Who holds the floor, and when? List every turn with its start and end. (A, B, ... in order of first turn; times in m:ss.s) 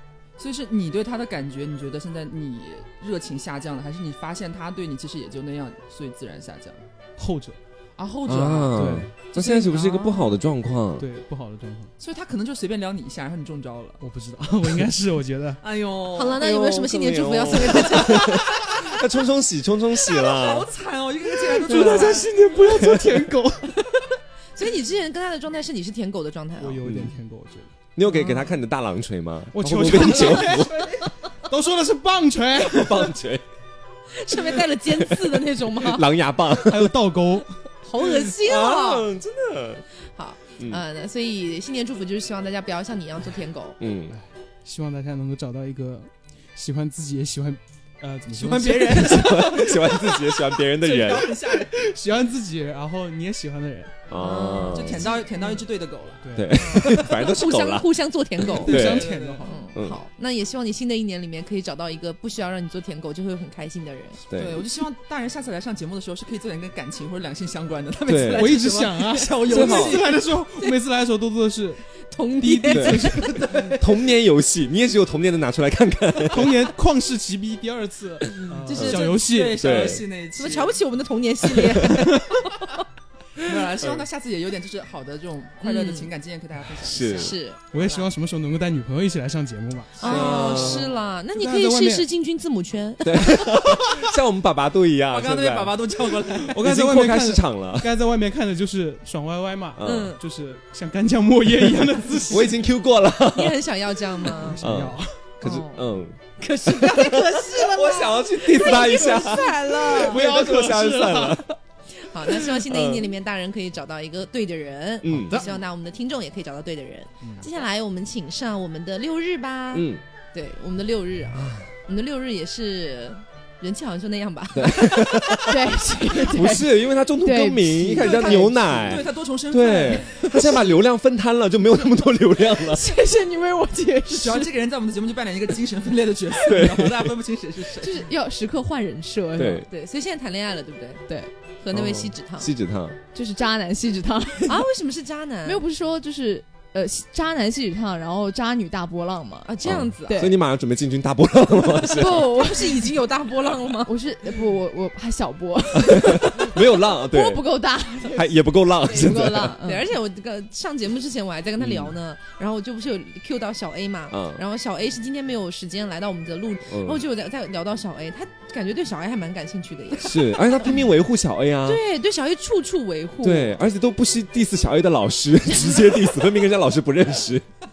0:00.4-0:06.8 A
0:07.2-0:07.6 B
0:08.0-0:10.4 A
0:08.2-0:11.0 C
0:08.8-0:09.2 B
0:11.0-0:11.9 B
0:12.0-0:14.0 A
0:14.0-0:15.6 B
0:15.6-0:16.4 A
0:16.2-0:18.4 D
0:16.4-0:20.7 C
0:20.0-0:22.3 A
0:21.6-0:23.8 B
0:21.7-0:23.3 C
0:24.6-0:26.9 D
0:26.6-0:27.8 B
0:26.8-0:27.1 C
0:28.0-0:30.9 C
0:28.1-0:28.5 D
0:29.5-0:30.7 B
0:30.0-0:30.6 A
0:31.5-0:33.1 B
0:32.6-0:33.4 C
0:34.2-0:36.1 D
0:35.0-0:37.0 C
0:36.6-0:37.5 B
0:37.8-0:39.1 D
0:38.0-0:39.8 C
0:40.2-0:43.8 D
0:43.8-0:44.2 C
0:44.1-0:49.5 B
0:48.3-0:49.8 A
0:48.8-0:51.4 C
0:50.8-0:51.8 A
0:51.8-0:54.0 B
0:54.1-0:55.1 C
0:54.2-0:55.6 D
0:54.7-0:56.3 A
0:56.2-0:56.6 B
0:56.3-0:57.9 C
0:56.6-1:04.2 D
0:58.5-0:59.7 A
0:58.6-0:59.1 C
0:58.7-0:59.6 B
0:59.7-1:00.0 C
1:04.3-1:04.6 C
1:04.3-1:10.4 A
1:08.1-1:08.6 C
1:08.4-1:11.8 B
1:09.4-1:10.1 C
1:12.1-1:13.7 D
1:12.4-1:13.8 B
1:12.7-1:16.6 C
1:16.3-1:19.8 B
1:18.7-1:19.2 D
1:18.7-1:19.0 C
1:18.8-1:20.8 A
1:19.6-1:20.0 C
1:20.4-1:22.6 D
1:23.4-1:27.4 A
1:25.6-1:26.1 D
1:26.8-1:27.4 C
1:27.1-1:28.1 D
1:27.7-1:30.7 B
1:30.0-1:33.8 D
1:30.0-1:30.9 C
1:31.3-1:32.1 B
1:33.0-1:35.8 C
1:35.1-1:36.7 A
1:36.5-1:42.5 B
1:36.6-1:37.9 C
1:39.8-1:40.2 C
1:39.8-1:40.2 D
1:42.3-1:43.6 C
1:43.3-1:44.7 D
1:44.4-1:45.2 B
1:44.6-1:51.4 C
1:45.4-1:50.3 D
1:50.3-1:51.3 B
1:52.0-2:05.6 D
1:52.6-1:53.1 C
1:55.0-1:55.5 C
1:59.7-2:00.0 C
2:01.4-2:01.7 C
2:04.5-2:05.6 C
2:05.5-2:08.5 E
2:06.1-2:12.9 C
2:08.0-2:10.6 A
2:12.7-2:14.5 E
2:14.1-2:18.1 A
2:16.4-2:17.1 C
2:17.8-2:19.6 E
2:19.4-2:19.7 C
2:19.6-2:21.0 D
2:21.6-2:22.5 D
2:21.7-2:23.0 C
2:23.1-2:24.7 E
2:24.5-2:25.6 D
2:25.4-2:30.4 E
2:29.5-2:30.3 D
2:29.6-2:32.4 C
2:31.8-2:32.9 E
2:31.9-2:34.0 D
2:33.9-2:39.9 E
2:35.8-2:37.5 C
2:38.1-2:39.6 C
2:39.0-2:50.9 D
2:41.6-2:42.0 C
2:44.1-2:44.4 C
2:46.7-2:47.0 C
2:50.0-2:51.8 C
2:51.6-2:53.6 D
2:53.2-2:57.4 C